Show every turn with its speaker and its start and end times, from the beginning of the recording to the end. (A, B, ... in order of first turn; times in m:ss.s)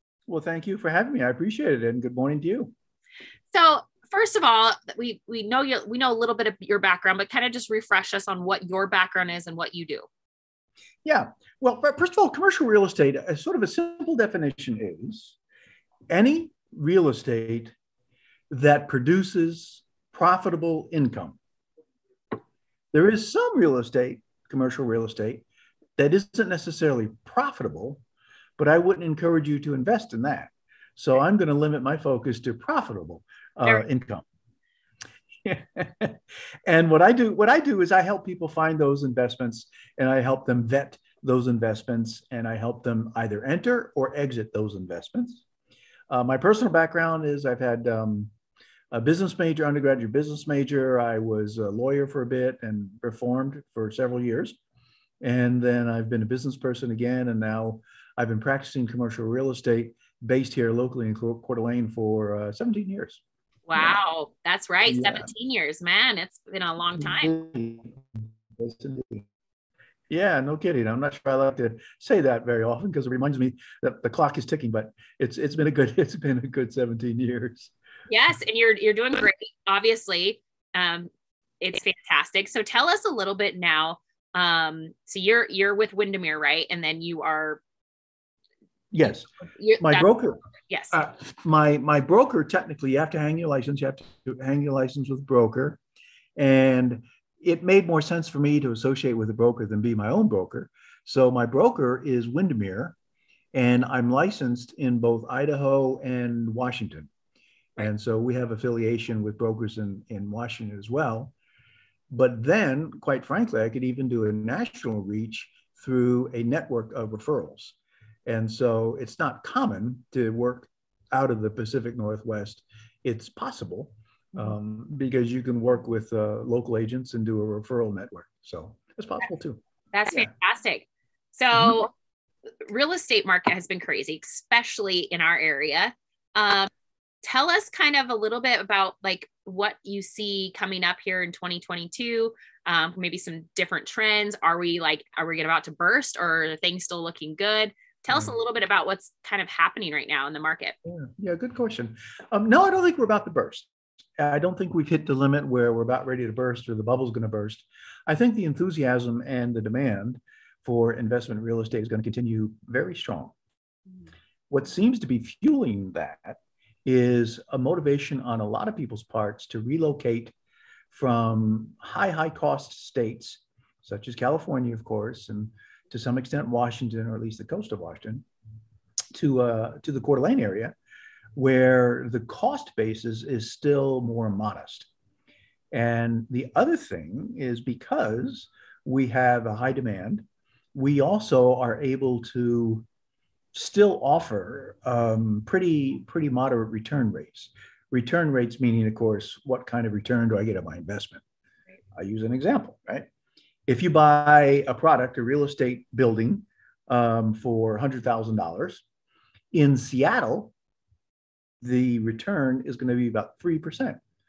0:00.3-0:02.7 A
0:03.5-0:10.1 B
0:11.0-0:15.4 A
0:16.1-0:17.7 A
0:18.5-0:21.4 A
0:22.9-0:25.4 A
0:26.0-0:28.0 A
0:28.6-0:34.2 A
0:35.4-0:45.4 A
0:46.1-0:48.3 A
0:48.9-0:54.6 A
0:55.2-1:03.2 A
1:03.7-1:07.3 B
1:04.8-1:05.3 A
1:06.9-1:09.3 A
1:10.1-1:17.7 A
1:18.1-1:21.1 B
1:21.6-1:27.6 B
1:28.9-1:29.3 A
1:29.6-1:30.1 B
1:29.8-1:30.4 A
1:30.7-1:31.0 B
1:30.9-1:35.8 A
1:36.4-1:43.0 A
1:43.5-1:47.1 A
1:47.8-1:51.3 A
1:52.1-2:10.3 A
2:09.9-2:11.9 B
2:11.5-2:11.8 A
2:12.6-2:16.7 B
2:17.2-2:30.8 B
2:30.8-2:43.3 A
2:44.5-2:50.3 A
2:50.9-2:58.2 A
2:59.1-3:00.7 A
3:01.3-3:04.9 A
3:05.7-3:12.8 A
3:13.5-3:21.2 A
3:21.9-3:23.1 A
3:23.7-3:28.8 A
3:29.5-3:30.5 A
3:31.6-3:34.0 A